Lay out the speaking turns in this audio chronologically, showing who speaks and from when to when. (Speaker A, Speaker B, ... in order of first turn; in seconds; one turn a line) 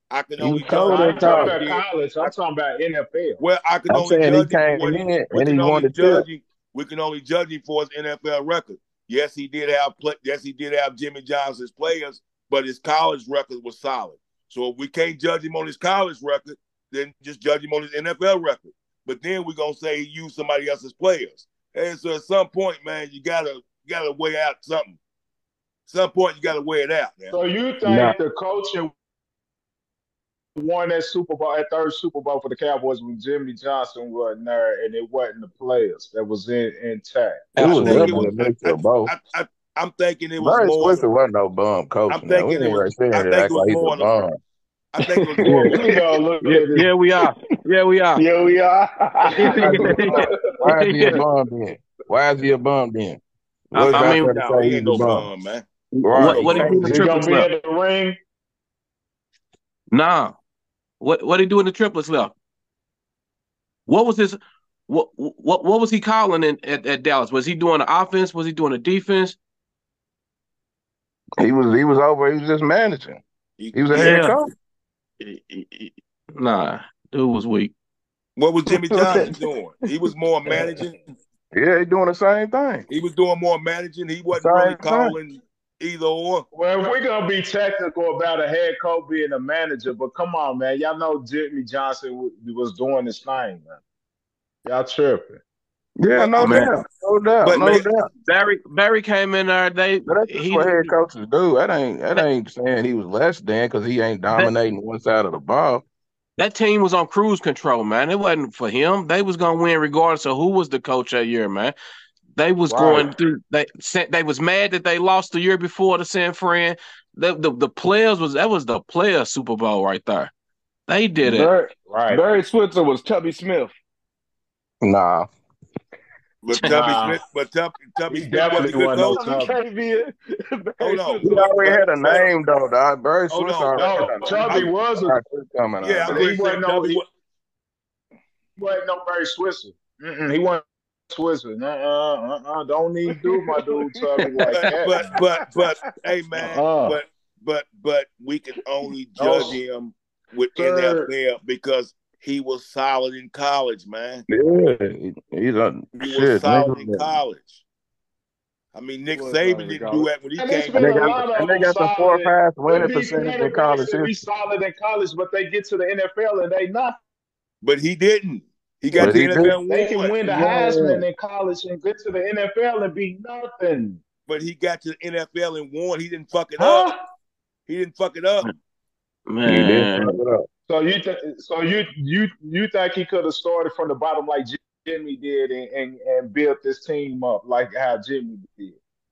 Speaker A: 0.1-2.3
Speaker B: 0.4-1.6
Speaker C: 0.6-3.4
Speaker A: 3.4-25.0
Speaker B: 3.9-6.3
Speaker A: 25.9-27.4
Speaker C: 27.3-28.9
Speaker C: 30.6-37.9
Speaker D: 37.5-38.2
Speaker B: 37.6-39.1
Speaker A: 37.8-41.1
Speaker B: 40.4-44.4
Speaker A: 42.1-44.2
Speaker A: 44.9-45.5
Speaker E: 45.1-45.9
Speaker C: 45.4-46.9
Speaker B: 45.4-45.8
Speaker D: 46.4-48.2
Speaker E: 48.2-50.3
Speaker D: 49.4-50.2
Speaker C: 49.4-50.3
Speaker B: 49.5-53.2
Speaker D: 50.8-51.2
Speaker B: 53.7-55.3
Speaker D: 53.7-54.4
Speaker A: 53.9-56.6
Speaker B: 56.0-57.0
Speaker D: 56.1-57.5
Speaker C: 56.5-58.2
Speaker D: 59.9-60.4
Speaker D: 61.0-62.3
Speaker D: 63.9-69.4
Speaker B: 71.4-74.5
Speaker A: 73.6-74.2
Speaker D: 73.9-74.3
Speaker D: 75.2-77.7
Speaker A: 78.4-81.0
Speaker E: 78.9-79.4
Speaker B: 81.5-82.9
Speaker A: 82.9-86.5
Speaker B: 84.3-85.2
Speaker C: 86.5-93.8
Speaker C: 94.7-95.4
Speaker B: 96.0-98.1
Speaker A: 96.1-96.7
Speaker D: 96.4-96.7
Speaker A: 97.4-97.9
Speaker D: 98.2-100.9
Speaker B: 100.1-105.8
Speaker D: 106.4-111.8
Speaker D: 112.3-120.3
Speaker C: 112.8-113.0
Speaker D: 120.9-121.5
Speaker E: 121.2-123.7
Speaker C: 121.9-122.2
Speaker B: 124.8-125.3
Speaker A: 126.4-129.2
Speaker D: 126.5-126.9
Speaker C: 126.6-127.2
Speaker C: 128.1-129.5
Speaker E: 129.0-131.4
Speaker A: 130.8-132.3
Speaker B: 131.2-136.2
Speaker A: 133.3-134.7
Speaker C: 133.8-135.2
Speaker A: 135.8-137.1
Speaker C: 136.1-137.0
Speaker C: 138.6-145.2
Speaker A: 144.5-154.2
Speaker C: 146.4-147.0
Speaker C: 149.2-149.6
Speaker C: 150.6-151.1
Speaker B: 154.3-157.2
Speaker A: 156.0-157.6
Speaker A: 158.7-161.2
Speaker E: 159.1-160.1
Speaker C: 160.3-167.0
Speaker B: 160.8-164.1
Speaker A: 167.6-170.3
Speaker B: 168.9-169.6
Speaker C: 169.4-174.0
Speaker B: 170.4-171.0
Speaker A: 174.2-176.9
Speaker C: 176.6-176.9
Speaker A: 177.7-178.5
Speaker D: 179.3-180.1
Speaker B: 179.4-180.5
Speaker C: 180.7-188.8